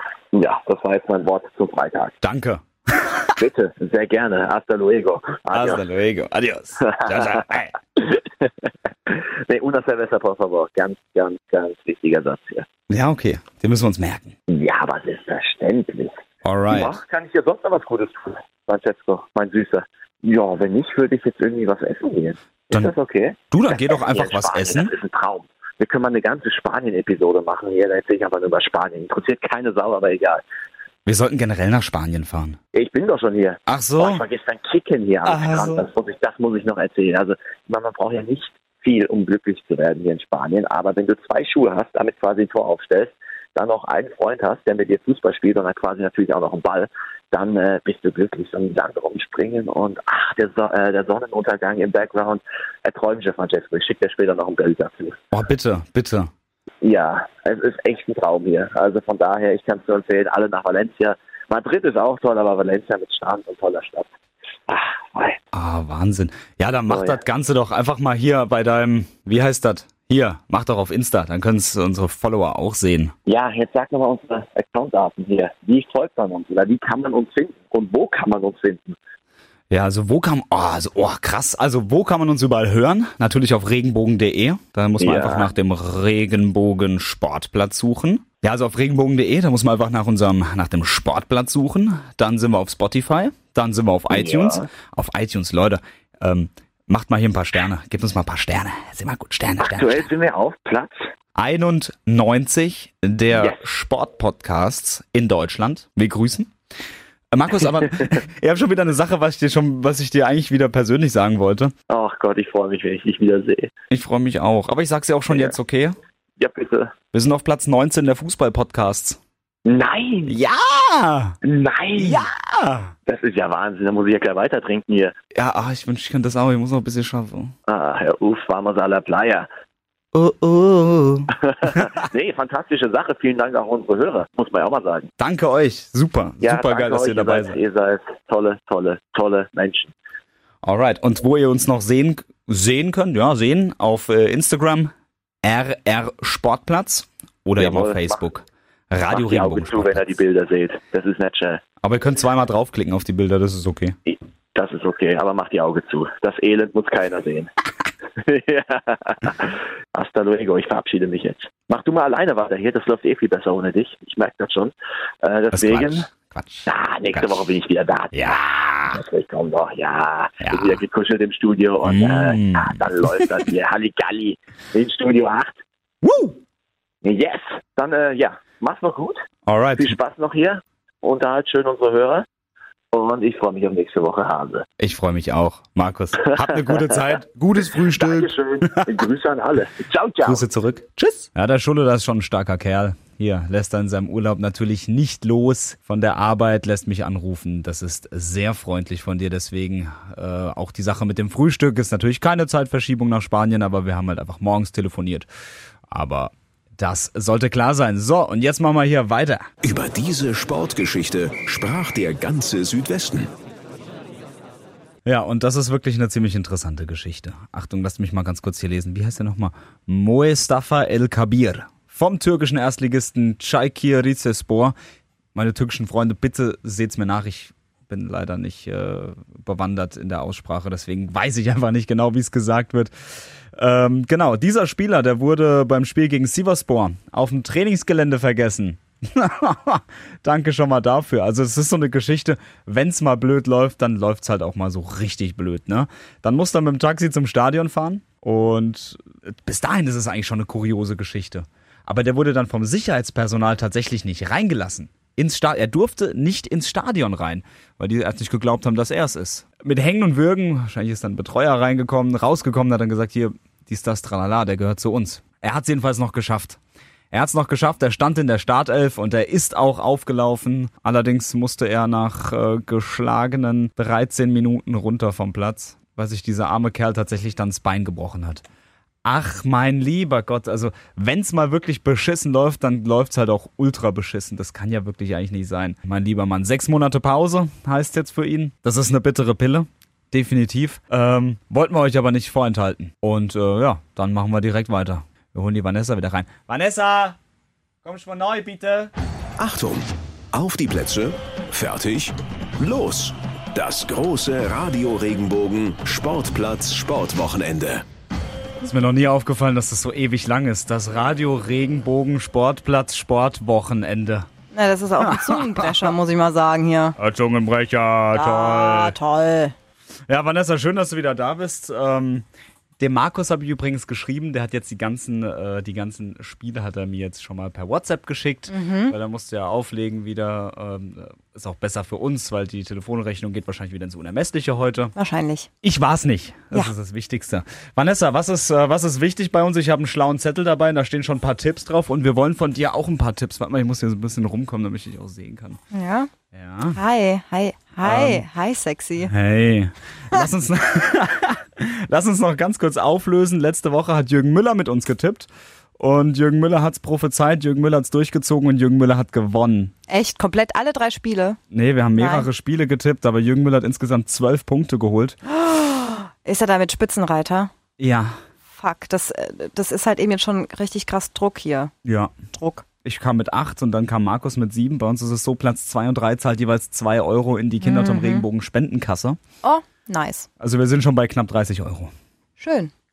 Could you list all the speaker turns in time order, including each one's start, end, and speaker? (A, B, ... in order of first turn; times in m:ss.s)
0:00.3-0:02.2 A
0:02.2-0:03.5 B
0:03.4-0:05.8 A
0:05.5-0:07.7 B
0:06.8-0:07.4 A
0:08.0-0:12.7 A
0:12.9-0:14.3 B
0:14.5-0:16.2 A
0:16.4-0:17.0 B
0:16.7-0:30.4 A
0:23.5-0:24.9 B
0:31.1-0:32.6 B
0:32.7-0:55.2 A
0:33.7-0:34.2 B
0:35.2-0:35.9 B
0:55.3-0:56.3 B
0:56.8-1:04.1 A
1:04.7-1:05.4 A
1:05.5-1:13.1 B
1:06.9-1:07.2 A
1:13.3-1:19.0 A
1:19.7-1:40.1 B
1:25.0-1:25.5 A
1:34.1-1:34.7 A
1:39.6-1:41.1 A
1:41.4-1:46.5 B
1:43.3-1:43.6 A
1:47.3-1:51.7 B
1:51.9-1:53.7 A
1:53.9-1:56.0 B
1:56.4-1:56.9 A
1:57.1-1:59.2 B
1:59.6-2:00.4 A
2:00.3-2:01.4 B
2:01.4-2:02.3 A
2:02.0-2:02.9 B
2:03.1-2:05.1 A
2:05.3-2:07.5 B
2:07.7-2:09.5 A
2:10.1-2:11.3 B
2:11.4-2:15.1 A
2:15.2-2:17.6 B
2:16.4-2:19.9 A
2:20.6-2:24.9 B
2:25.4-2:30.1 B
2:27.6-2:28.2 A
2:29.1-2:31.6 A
2:31.8-2:34.0 B
2:34.1-2:37.5 A
2:38.2-2:44.7 A
2:45.2-2:46.1 A
2:45.5-2:47.5 B
2:46.7-2:55.6 A
2:48.1-2:49.0 B
2:50.4-2:50.8 B
2:51.8-2:53.5 B
2:56.0-2:56.4 B
2:57.0-2:59.2 A
2:59.5-3:00.0 B
2:59.8-3:02.3 A
3:02.9-3:04.6 A
3:04.8-3:08.3 B
3:08.0-3:10.4 A
3:10.2-3:25.3 B
3:25.9-3:29.5 B
3:29.6-3:33.3 C
3:35.0-3:44.7 B
3:45.3-3:52.9 B
3:53.6-4:26.6 B
4:27.1-4:38.4 B
4:39.0-4:57.2 B
4:57.8-4:58.9 B
4:59.4-5:07.8 C
5:08.6-5:14.3 B
5:14.5-5:17.0 D
5:15.0-5:15.9 B
5:17.0-5:19.0 B
5:18.1-5:19.5 D
5:20.1-5:22.2 B
5:22.8-5:34.9 B
5:28.5-5:29.0 D
5:35.0-5:35.5 D
5:35.6-5:45.6 B
5:45.7-5:46.1 D
5:46.3-5:46.8 B
5:46.7-5:49.1 D
5:47.8-5:48.3 B
5:49.1-5:59.7 B
5:59.9-6:01.4 D
6:01.5-6:05.2 B
6:02.0-6:02.3 D
6:05.3-6:07.5 D
6:07.8-6:08.2 B
6:08.5-6:11.7 D
6:11.8-6:12.1 B
6:12.3-6:12.6 D
6:12.8-6:19.2 B
6:17.6-6:18.3 D
6:19.4-6:20.3 D
6:20.4-6:21.9 B
6:22.4-6:22.7 D